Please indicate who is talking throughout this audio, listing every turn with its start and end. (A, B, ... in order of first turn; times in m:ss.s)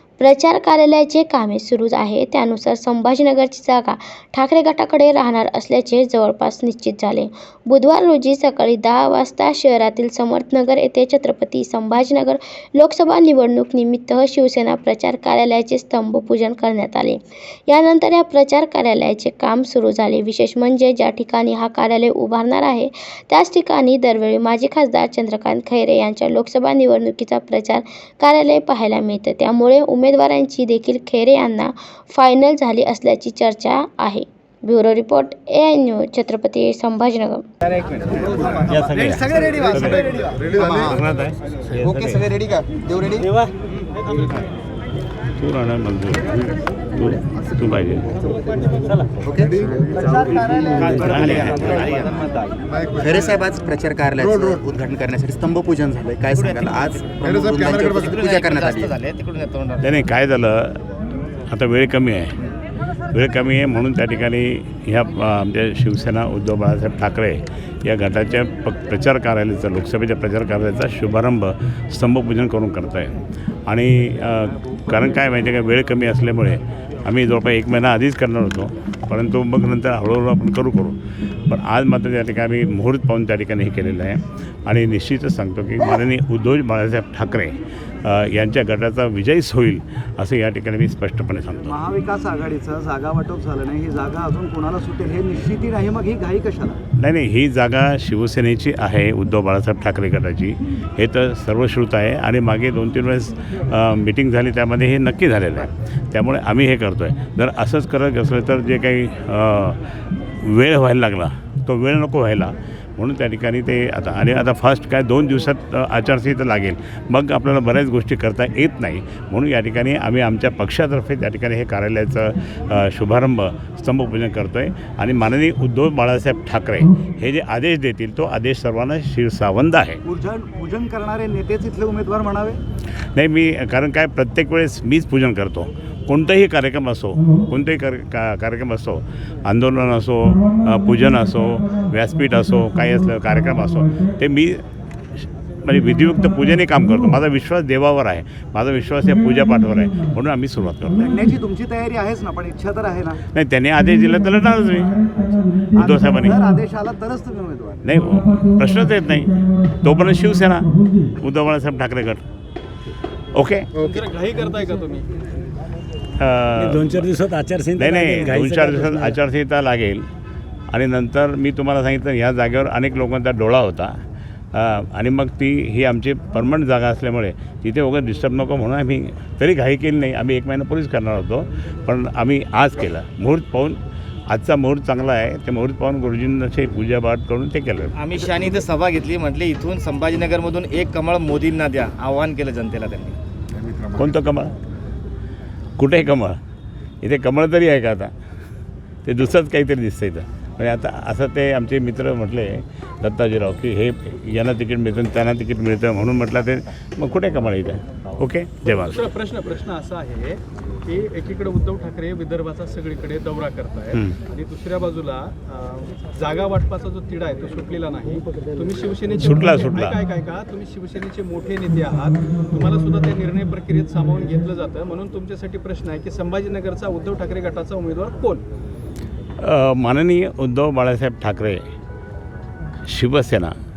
0:00.2-0:37.4 A
0:38.1-0:40.8 B
0:38.7-0:40.1 C
0:40.8-0:42.3 C
0:42.3-0:43.2 D
0:43.2-0:43.5 E
0:45.4-0:48.2 C
0:49.2-0:49.6 D
0:50.0-0:50.9 B
0:50.8-0:52.6 F
0:50.9-0:51.9 C
0:52.9-0:59.0 D
0:57.7-0:59.8 F
0:59.8-1:00.8 C
1:01.5-1:02.3 C
1:03.1-1:21.0 C
1:21.5-1:31.8 C
1:31.6-1:36.8 B
1:37.0-1:49.8 C
1:50.4-2:10.0 C
2:10.0-2:12.6 B
2:13.2-2:24.6 C
2:25.6-2:31.1 C
2:31.0-2:33.2 B
2:33.3-2:35.0 C
2:35.8-2:37.8 B
2:35.8-2:36.4 C
2:37.8-2:42.2 C
2:43.3-2:43.9 C
2:43.8-2:45.1 G
2:46.2-2:46.9 C
2:46.6-2:49.2 E
2:47.8-2:50.0 C
2:50.7-2:53.9 C
2:54.5-3:03.8 C
3:04.3-3:08.4 C
3:08.0-3:13.2 F
3:14.0-3:14.5 C
3:15.8-3:16.4 C
3:17.0-3:18.1 C
3:19.0-3:29.0 C
3:28.6-3:48.4 G
3:39.2-3:40.0 C
3:49.4-3:51.6 C
3:52.9-3:53.5 C